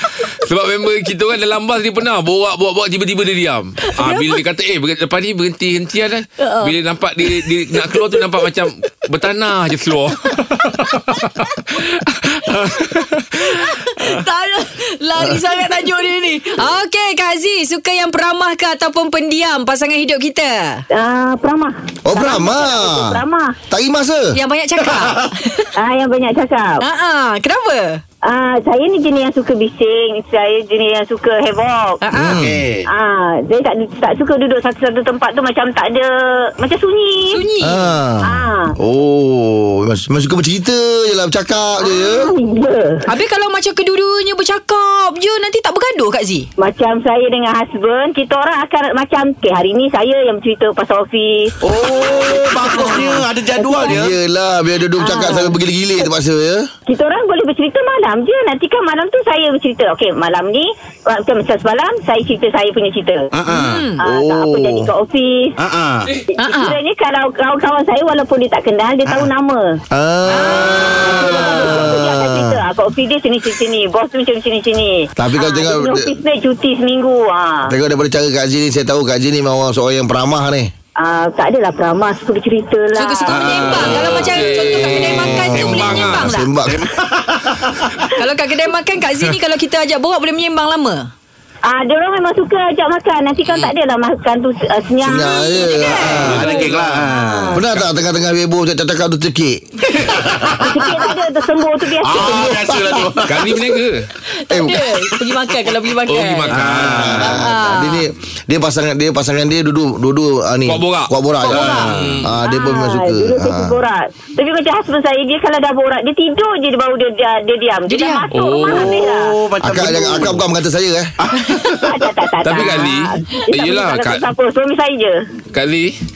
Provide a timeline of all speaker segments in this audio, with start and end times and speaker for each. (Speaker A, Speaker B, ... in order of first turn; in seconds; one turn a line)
Speaker A: 0.1-14.2
Speaker B: 3.8-4.4
Speaker B: 6.4-8.5
Speaker B: 10.9-11.5
Speaker B: 13.4-20.9
Speaker C: 20.9-23.6
Speaker D: 22.0-24.4
Speaker B: 24.3-25.7
Speaker E: 24.9-25.2
Speaker C: 25.8-26.8
Speaker B: 26.8-28.0
Speaker C: 28.2-32.0
Speaker B: 32.0-32.4
Speaker D: 32.1-32.6
Speaker E: 32.3-32.9
Speaker C: 32.9-37.4
Speaker B: 37.3-37.9
Speaker D: 37.6-42.3
Speaker C: 38.2-38.7
Speaker C: 41.8-43.1
Speaker B: 43.1-46.5
Speaker C: 46.6-51.5
Speaker E: 51.6-54.1
Speaker C: 52.1-54.0
Speaker D: 53.8-56.7
Speaker C: 55.0-55.5
Speaker B: 55.1-55.4
Speaker C: 56.9-63.3
Speaker E: 63.3-63.9
Speaker B: 63.5-64.0
Speaker C: 64.0-65.5
Speaker D: 64.0-64.9
Speaker E: 65.6-66.1
Speaker C: 66.3-69.8
Speaker B: 66.4-66.8
Speaker D: 69.9-72.6
Speaker B: 70.3-71.7
Speaker C: 70.6-77.7
Speaker D: 75.2-76.1
Speaker D: 77.6-80.7
Speaker C: 81.0-83.9
Speaker B: 83.0-86.5
Speaker E: 83.2-84.5
Speaker A: 83.6-86.3
Speaker D: 85.1-86.9
Speaker E: 86.6-88.0
Speaker B: 88.1-91.1
Speaker C: 91.7-97.3
Speaker D: 95.0-96.6
Speaker B: 95.1-96.5
Speaker E: 95.9-97.6
Speaker A: 96.3-96.6
Speaker D: 97.5-100.5
Speaker E: 100.0-101.0
Speaker C: 100.6-102.7
Speaker E: 102.0-103.6
Speaker D: 102.1-103.1
Speaker A: 103.2-104.1
Speaker B: 104.3-106.5
Speaker D: 104.5-105.0
Speaker A: 106.1-107.4
Speaker E: 106.5-107.3
Speaker D: 106.7-113.8
Speaker B: 107.2-108.0
Speaker A: 110.7-112.3
Speaker E: 111.5-112.2
Speaker C: 112.4-119.3
Speaker B: 117.9-118.2
Speaker A: 118.3-119.0
Speaker E: 118.7-120.4
Speaker D: 119.6-121.1
Speaker E: 121.2-122.1
Speaker C: 121.8-125.2
Speaker A: 122.4-124.2
Speaker B: 122.6-122.9
Speaker A: 125.5-126.0